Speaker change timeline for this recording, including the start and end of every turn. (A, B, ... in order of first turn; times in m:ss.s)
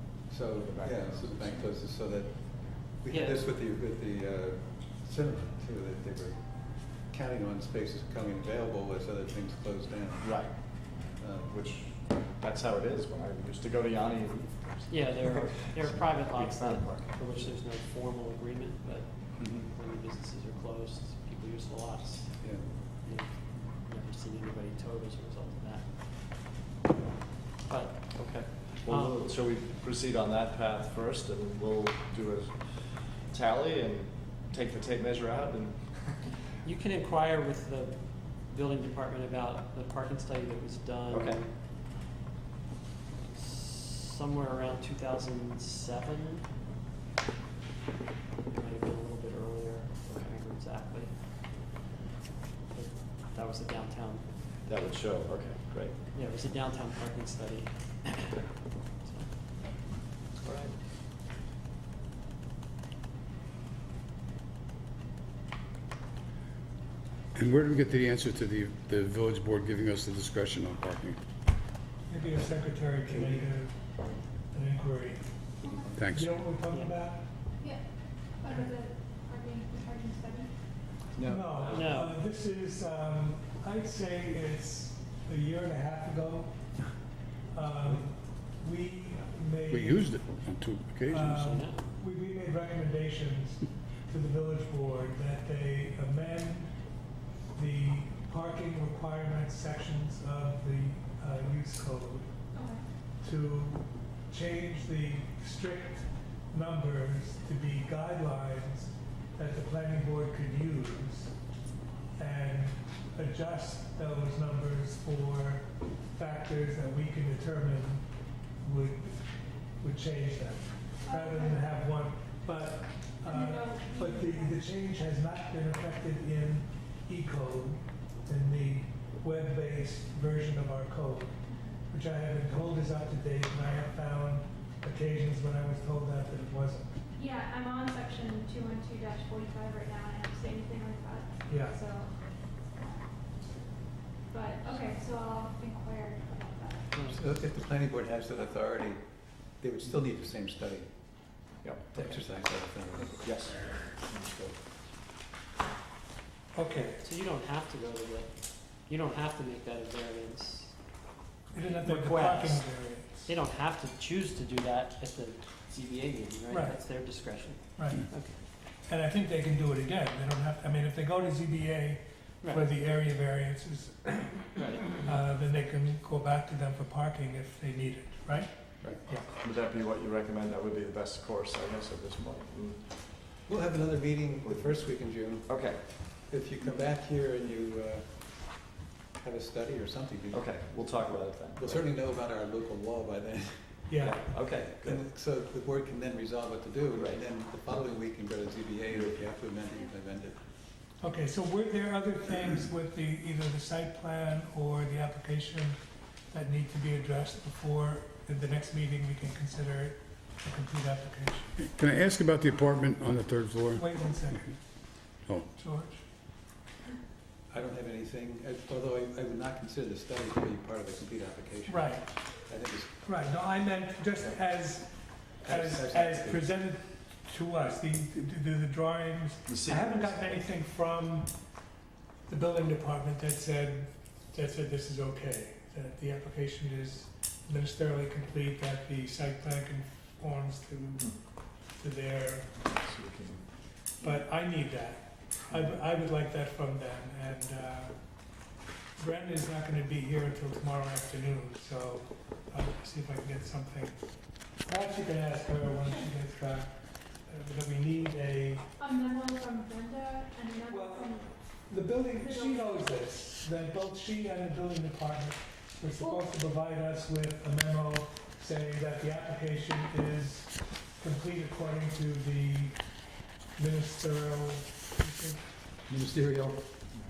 0:00.3-0:11.5 A
0:00.6-0:01.7 B
0:03.1-0:03.5 C
0:10.2-0:17.5 B
0:14.9-0:25.9 C
0:19.4-0:19.6 A
0:22.4-0:22.8 A
0:27.7-0:29.3 C
0:28.1-0:36.4 B
0:36.6-0:41.5 C
0:41.1-0:41.4 B
0:43.3-0:46.5 C
0:48.5-0:51.1 C
0:50.1-0:50.3 B
0:52.7-0:54.3 C
0:54.6-0:56.0 B
0:56.1-0:58.4 C
0:59.0-0:59.4 C
1:00.4-1:00.8 B
1:07.4-1:11.2 D
1:12.1-1:15.5 E
1:13.1-1:13.5 A
1:15.6-1:16.0 F
1:16.0-1:16.3 D
1:16.1-1:17.6 E
1:16.7-1:17.0 C
1:17.6-1:20.6 F
1:21.1-1:22.0 A
1:21.2-1:26.9 E
1:21.6-1:22.2 C
1:27.5-1:30.3 E
1:29.7-1:31.4 D
1:31.1-1:42.3 E
1:31.3-1:31.8 C
1:42.5-1:42.8 F
1:43.2-1:51.4 E
1:52.2-1:58.1 E
1:58.6-2:11.4 E
2:01.0-2:01.7 F
2:03.3-2:04.6 F
2:11.5-2:11.8 F
2:11.9-2:16.9 E
2:17.2-2:22.2 F
2:21.5-2:21.8 E
2:24.3-2:27.2 F
2:27.1-2:33.9 A
2:31.6-2:32.2 B
2:33.0-2:34.5 B
2:36.5-2:37.0 E
2:37.0-2:40.8 C
2:41.5-2:43.3 E
2:41.6-2:48.4 C
2:46.5-2:46.8 E
2:47.8-2:59.3 E
2:52.4-2:52.7 C
2:54.5-2:55.0 C
2:58.8-3:02.9 B
3:03.5-3:20.4 A
3:04.4-3:05.9 B
3:10.3-3:11.9 B
3:13.9-3:14.2 E
3:14.0-3:15.0 B
3:17.0-3:17.2 B
3:18.9-3:19.2 B
3:21.0-3:25.8 E
3:26.3-3:31.6 E
3:31.6-3:34.6 D
3:33.7-3:36.1 E
3:35.1-3:35.5 D
3:37.5-3:43.6 A
3:41.7-3:51.7 E
3:45.4-3:46.4 A
3:49.5-3:50.4 B
3:52.3-4:02.7 E
4:02.6-4:03.5 B
4:04.0-4:08.4 E
4:05.5-4:05.8 B
4:09.0-4:18.7 E
4:15.8-4:16.1 F
4:18.8-4:21.5 F
4:20.7-4:33.0 E
4:22.2-4:22.6 F
4:26.0-4:26.2 F
4:33.5-4:35.5 E
4:35.9-4:36.8 A